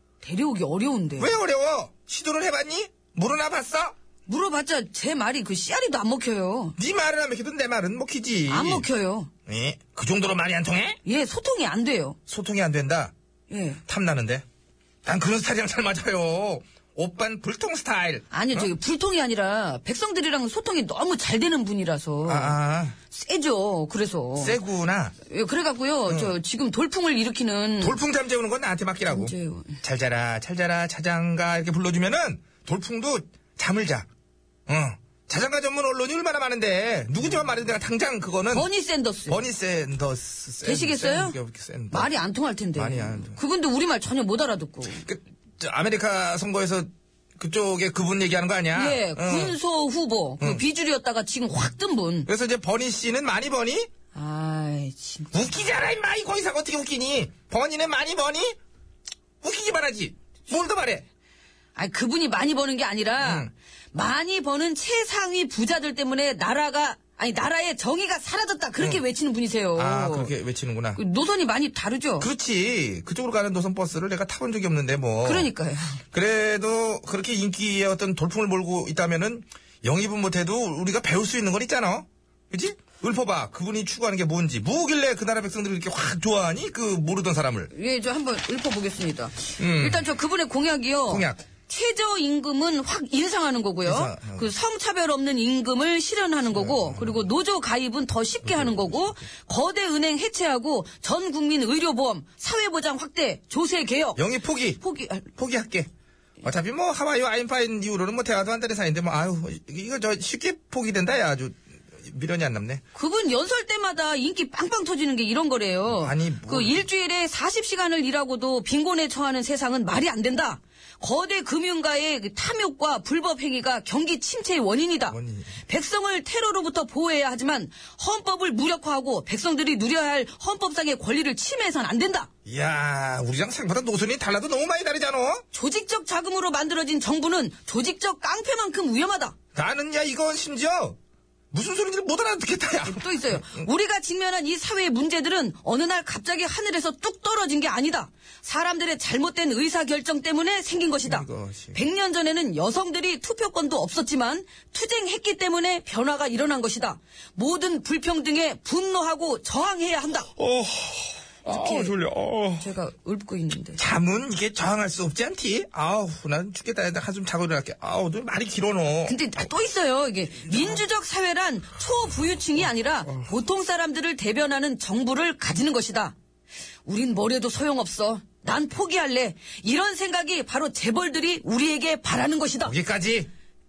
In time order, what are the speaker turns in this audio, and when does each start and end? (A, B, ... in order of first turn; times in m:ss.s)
0:00.2-0:01.4 A
0:01.2-0:03.9 B
0:04.3-0:06.8 A
0:06.8-0:08.9 B
0:08.5-0:09.3 A
0:09.5-0:11.0 B
0:11.0-0:12.2 A
0:12.3-0:13.1 B
0:13.5-0:13.8 A
0:13.9-0:14.4 B
0:15.0-0:18.7 B
0:18.3-0:22.6 A
0:22.2-0:23.0 B
0:23.1-0:24.6 A
0:24.4-0:25.1 B
0:25.2-0:28.0 A
0:26.1-0:26.3 B
0:27.8-0:34.1 B
0:29.1-0:29.8 A
0:34.7-0:38.7 B
0:38.5-0:39.4 A
0:39.3-0:42.1 B
0:40.6-0:41.4 A
0:41.9-0:45.0 A
0:42.7-0:43.4 B
0:44.9-0:49.6 B
0:48.7-0:52.3 A
0:52.3-0:53.9 B
0:54.1-0:55.8 A
0:55.3-0:58.6 B
0:59.4-1:01.0 B
1:01.8-1:10.3 A
1:03.2-1:03.5 B
1:09.8-1:11.0 B
1:10.9-1:12.3 A
1:12.2-1:15.5 B
1:15.2-1:16.0 A
1:16.1-1:27.7 B
1:27.7-1:44.2 A
1:29.6-1:30.0 B
1:31.1-1:31.4 B
1:33.8-1:34.5 B
1:36.5-1:37.2 B
1:38.5-1:39.0 B
1:44.2-1:44.8 B
1:44.8-1:45.3 A
1:45.3-1:45.9 B
1:46.4-1:52.8 B
1:52.9-2:12.3 A
1:55.9-1:56.8 B
2:05.1-2:05.6 B
2:12.4-2:15.4 B
2:15.5-2:19.4 A
2:19.5-2:21.0 B
2:21.5-2:23.7 B
2:22.8-2:40.3 A
2:31.0-2:31.8 B
2:40.4-2:42.6 B
2:41.4-2:42.0 A
2:42.6-2:43.8 A
2:43.8-2:49.3 B
2:49.0-2:56.1 A
2:50.5-2:50.8 B
2:56.8-3:02.8 A
3:02.6-3:03.3 B